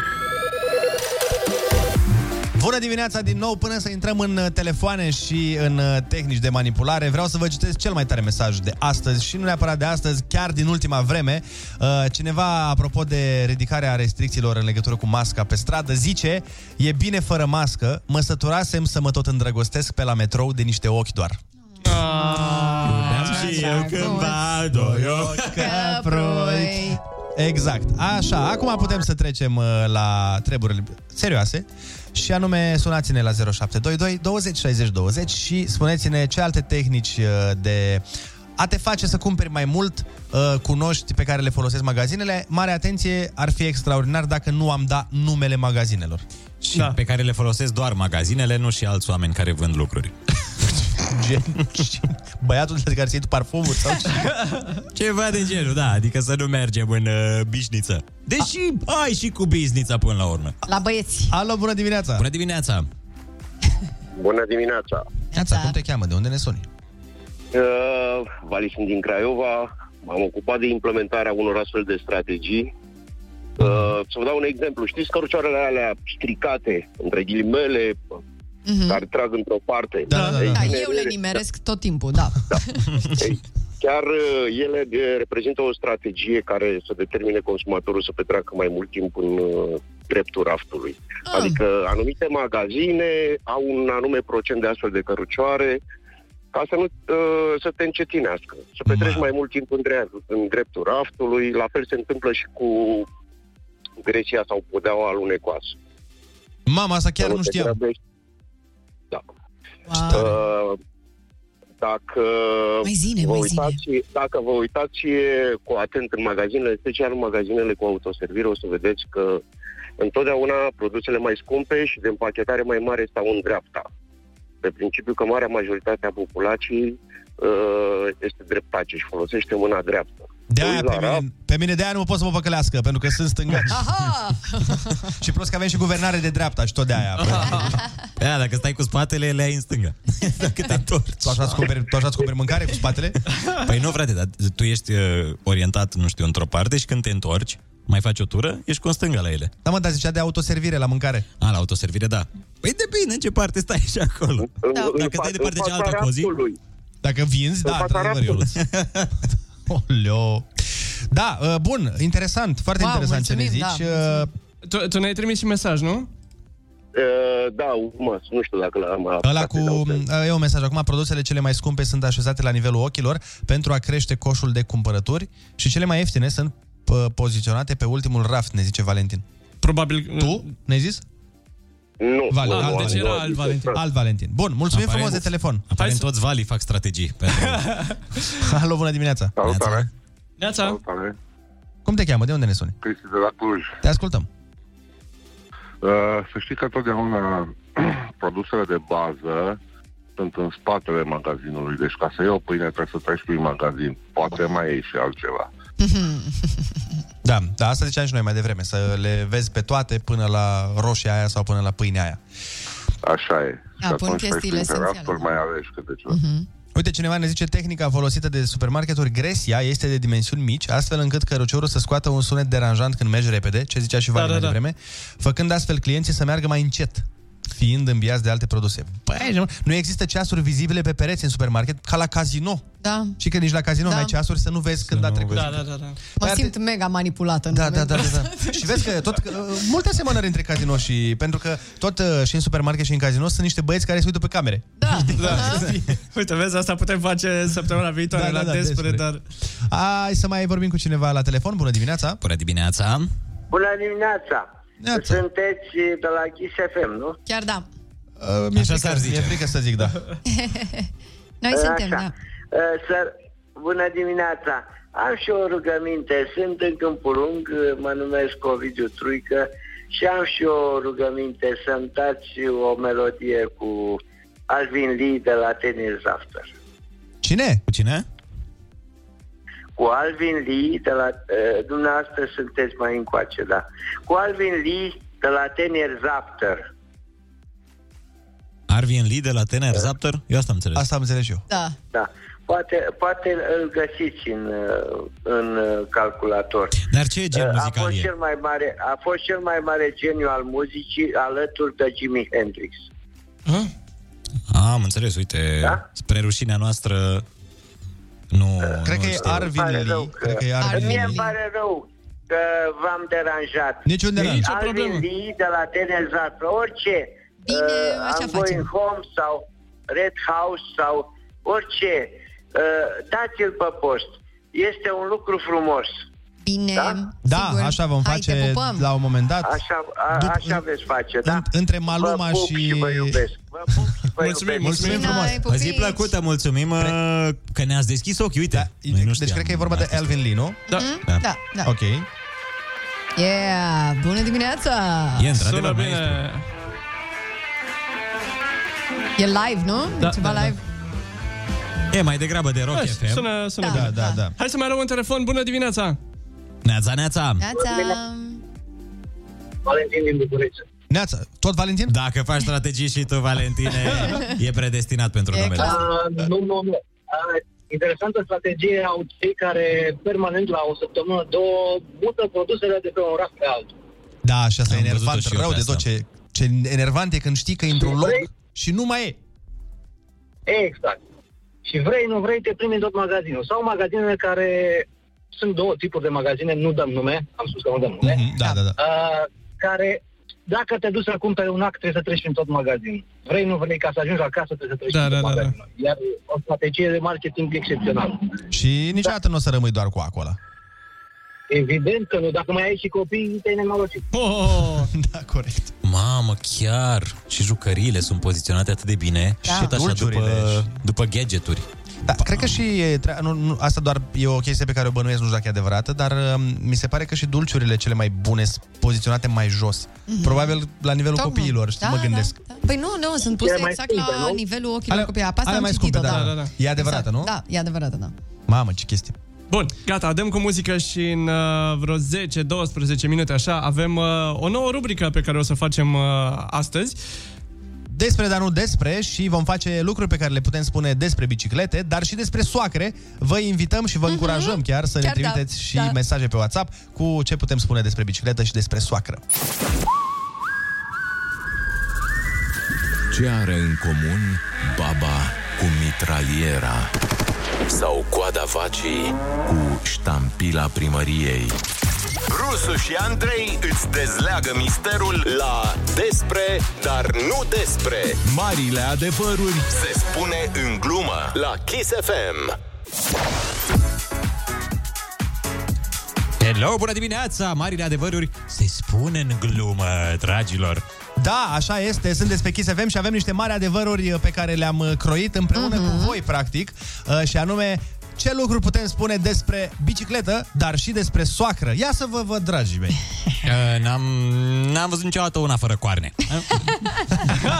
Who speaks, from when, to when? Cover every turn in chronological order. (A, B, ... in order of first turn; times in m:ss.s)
0:02.5-0:21.4 A
0:21.8-0:23.6 B
0:21.8-0:24.4 C
0:22.8-0:25.7 D
0:24.7-0:38.0 A
0:25.6-0:27.0 C
0:38.6-0:46.2 A
0:46.7-0:50.1 D
0:50.9-0:54.2 A
0:54.2-0:54.8 B
0:54.9-1:00.5 D
1:00.6-1:01.3 C
1:01.3-1:02.2 A
1:02.2-1:02.9 D
1:04.2-1:05.0 E
1:05.3-1:05.7 C
1:05.3-1:06.7 A
1:07.5-1:12.7 E
1:13.6-1:18.0 E
1:18.6-1:19.0 C
1:18.9-1:21.4 E
1:20.1-1:20.7 A
1:20.1-1:20.4 B
1:20.3-1:22.9 C
1:23.2-1:35.8 E
1:31.3-1:31.6 C
1:36.5-1:43.1 E
1:38.9-1:39.2 D
1:44.0-1:45.8 E
1:46.6-1:47.8 A
1:47.2-1:48.0 E
1:49.9-1:50.3 C
1:50.1-1:50.8 E
1:51.8-1:59.4 E
1:52.8-1:53.8 C
2:00.0-2:03.9 E
2:04.6-2:11.2 E
2:10.5-2:13.8 A
2:13.7-2:15.0 C
2:15.2-2:17.8 A
2:17.2-2:17.7 B
2:18.2-2:21.6 D
2:21.2-2:23.2 A
2:23.6-2:29.5 D
2:29.6-2:31.2 A
2:31.4-2:36.3 D
2:34.4-2:36.6 E
2:37.0-2:38.6 A
2:37.6-2:38.4 E
2:38.6-2:39.1 D
2:39.7-2:40.5 A
2:41.1-2:44.3 A
2:42.8-2:44.3 C
2:44.6-2:46.1 B
2:46.9-2:50.0 E
2:49.2-2:59.2 A
2:59.6-3:00.5 B
3:00.2-3:01.0 A
3:02.0-3:03.7 E
3:02.3-3:03.1 A
3:02.4-3:03.8 B
3:03.7-3:05.7 A
3:04.7-3:07.7 D
3:05.8-3:06.1 B
3:07.4-3:08.0 B
3:08.4-3:09.3 A
3:09.4-3:09.9 F
3:09.4-3:09.9 D
3:10.4-3:10.8 B
3:10.6-3:11.1 F
3:11.8-3:12.8 A
3:12.8-3:13.8 F
3:13.8-3:14.3 A
3:15.8-3:19.6 F
3:20.2-3:25.5 F
3:25.8-3:26.8 C
3:27.2-3:32.2 A
3:33.0-3:36.2 F
3:33.8-3:35.3 C
3:36.1-3:36.4 C
3:36.7-3:52.6 A
3:44.1-3:44.6 B
3:52.8-3:53.2 C
3:53.2-3:55.6 A
3:53.8-3:54.1 C
3:54.8-3:55.6 D
3:55.3-3:56.0 B
3:56.2-3:56.5 A
3:56.2-3:58.9 C
3:57.5-4:05.8 A
4:04.8-4:05.7 C
4:05.2-4:09.2 B
4:08.1-4:09.0 A
4:09.7-4:12.2 A
4:12.2-4:13.1 D
4:13.5-4:17.2 G
4:14.8-4:15.2 A
4:17.3-4:17.6 C
4:18.2-4:20.0 A
4:18.5-4:19.4 D
4:20.3-4:20.8 C
4:21.4-4:22.1 C
4:21.5-4:36.5 G
4:37.2-4:37.6 A
4:37.7-4:38.0 D
4:39.8-4:46.7 G
4:48.7-4:50.8 D
4:50.7-4:51.4 A
4:51.5-4:51.8 C
4:51.9-5:02.9 G
4:56.9-4:58.1 D
5:04.5-5:07.2 D
5:08.3-5:09.5 D
5:08.6-5:26.0 G
5:08.8-5:11.2 A
5:10.6-5:11.3 C
5:13.8-5:14.5 A
5:14.1-5:15.0 B
5:17.4-5:18.7 C
5:26.4-5:28.8 C
5:26.7-5:27.0 G
5:27.2-5:29.5 A
5:29.4-5:35.2 G
5:30.1-5:30.6 A
5:31.2-5:33.2 A
5:34.2-5:35.2 B
5:34.6-5:35.4 A
5:34.8-5:36.1 C
5:35.4-5:40.2 D
5:38.5-5:40.6 A
5:40.7-5:41.7 C
5:41.6-5:42.1 A
5:43.2-5:45.3 C
5:45.2-5:46.2 D
5:45.4-5:46.4 B
5:49.2-5:50.6 C
5:50.0-5:50.5 B
5:51.9-5:53.3 D
5:52.7-5:56.0 B
5:53.6-5:54.2 C
5:53.6-5:54.3 A
5:56.6-5:57.4 D
5:57.4-5:58.4 C
5:57.7-5:57.9 H
5:59.6-6:00.6 H
6:00.9-6:01.9 A
6:01.9-6:05.8 D
6:05.3-6:05.9 C
6:05.6-6:13.7 H
6:14.2-6:19.2 A
6:14.7-6:15.8 D
6:17.9-6:18.2 H
6:20.5-6:21.0 H
6:21.6-6:28.2 H
6:28.0-6:28.8 A
6:28.8-6:38.4 H
6:34.9-6:35.5 B
6:38.5-6:40.4 A
6:41.5-6:44.1 H
6:44.1-6:44.9 B
6:44.8-6:45.7 A
6:45.8-6:51.6 D
6:49.4-6:50.7 A
6:52.0-7:02.4 A
7:00.1-7:00.5 C
7:01.2-7:08.1 C
7:03.4-7:04.4 H
7:04.9-7:07.3 A
7:06.0-7:06.5 B
7:08.5-7:09.2 A
7:09.5-7:17.0 B
7:17.9-7:29.2 A
7:24.1-7:26.0 C
7:33.1-7:36.9 I
7:37.7-7:39.2 J
7:39.4-7:41.6 I
7:42.3-7:48.2 J
7:48.2-7:49.7 I
7:49.7-7:52.5 J
7:56.4-8:00.8 D
8:01.2-8:13.0 A
8:05.5-8:06.1 C
8:13.4-8:16.6 D